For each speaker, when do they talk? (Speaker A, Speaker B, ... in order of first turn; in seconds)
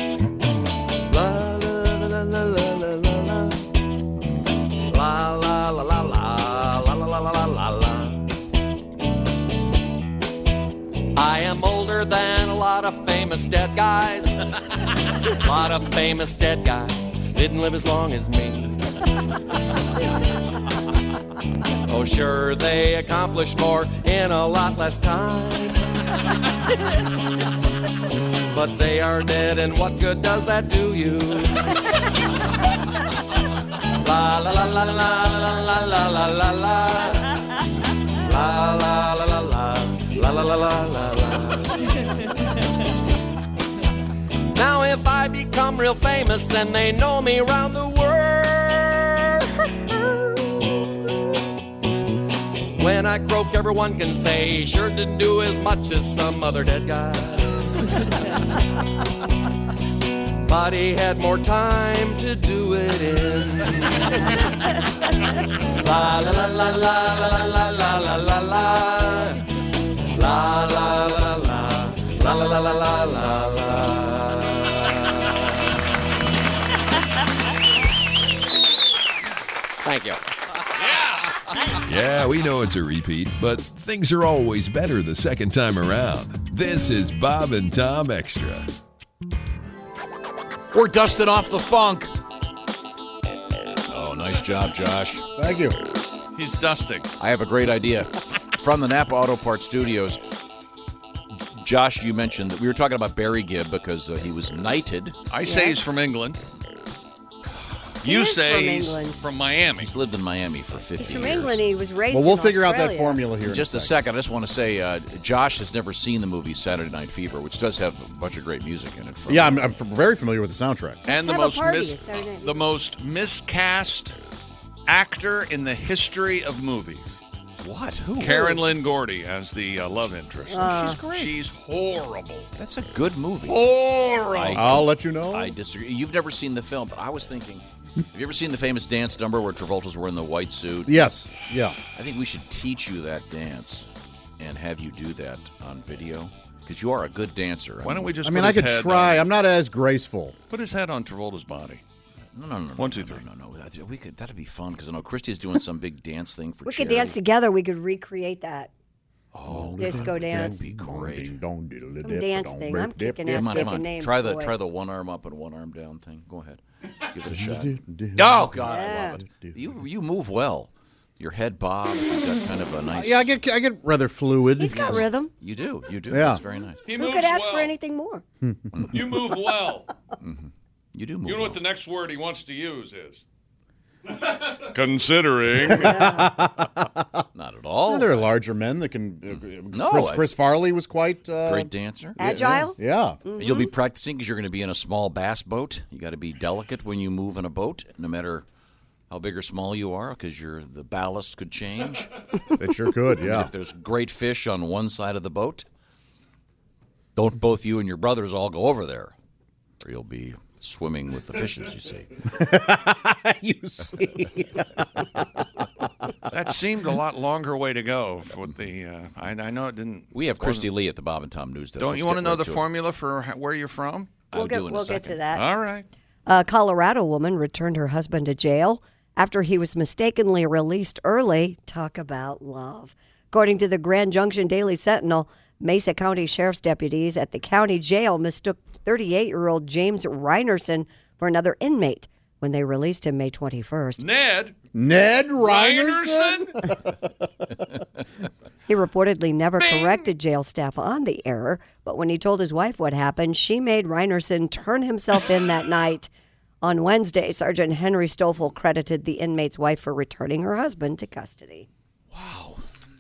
Speaker A: 1.1-3.6, 4.9-8.3, 11.2-14.4, 15.4-18.8, 21.9-25.9, 28.5-31.7, 34.0-37.3, 38.2-41.8, 44.5-49.3, 52.8-57.6, 60.4-64.0, 65.8-69.4, 70.2-75.1, 79.8-80.2
Speaker B: 80.8-81.2, 96.3-97.1, 105.3-106.4, 108.0-109.9, 121.1-124.2, 124.9-127.1, 128.2-132.5, 133.5-134.7, 147.8-149.3, 150.5-151.8, 152.8-153.2, 176.8-177.7, 178.9-179.9, 181.2-183.2, 184.2-186.0, 216.3-220.7, 221.8-224.3, 225.3-225.9, 244.0-244.6, 245.4-246.5, 249.6-249.9
Speaker C: 81.8-88.7
Speaker D: 90.7-92.2, 93.9-95.3, 97.2-100.2, 101.5-105.2, 109.8-111.7, 113.4-119.7, 127.6-128.7, 132.6-133.7, 134.3-141.1, 141.9-143.9, 144.4-148.2, 152.3-157.2, 159.3-161.3, 163.3-173.4, 174.7-176.8, 178.7-179.3, 180.2-181.6, 187.3-188.3, 189.3-190.3, 191.4-192.2, 193.4-198.4, 199.1-202.1, 203.2-205.7, 207.2-209.1, 209.8-212.1, 220.1-222.7, 224.3-225.2, 262.1-262.6
Speaker E: 95.4-95.8, 112.1-114.0, 119.3-121.0, 134.5-135.5, 140.9-141.8, 148.2-150.4, 159.5-163.7, 167.3-169.6, 172.9-175.1, 176.1-176.4, 185.6-187.1, 187.9-193.2, 202.6-203.5, 212.3-215.2, 244.7-247.1
Speaker F: 105.4-106.0, 108.0-109.2, 111.0-113.2, 121.1-122.7, 130.5-131.0, 156.7-158.7, 159.8-160.6, 162.0-164.6, 168.7-169.2, 174.6-175.3, 176.9-178.2, 185.7-186.3, 192.2-193.7, 224.3-225.5, 226.3-244.0, 248.7-256.1, 256.6-261.7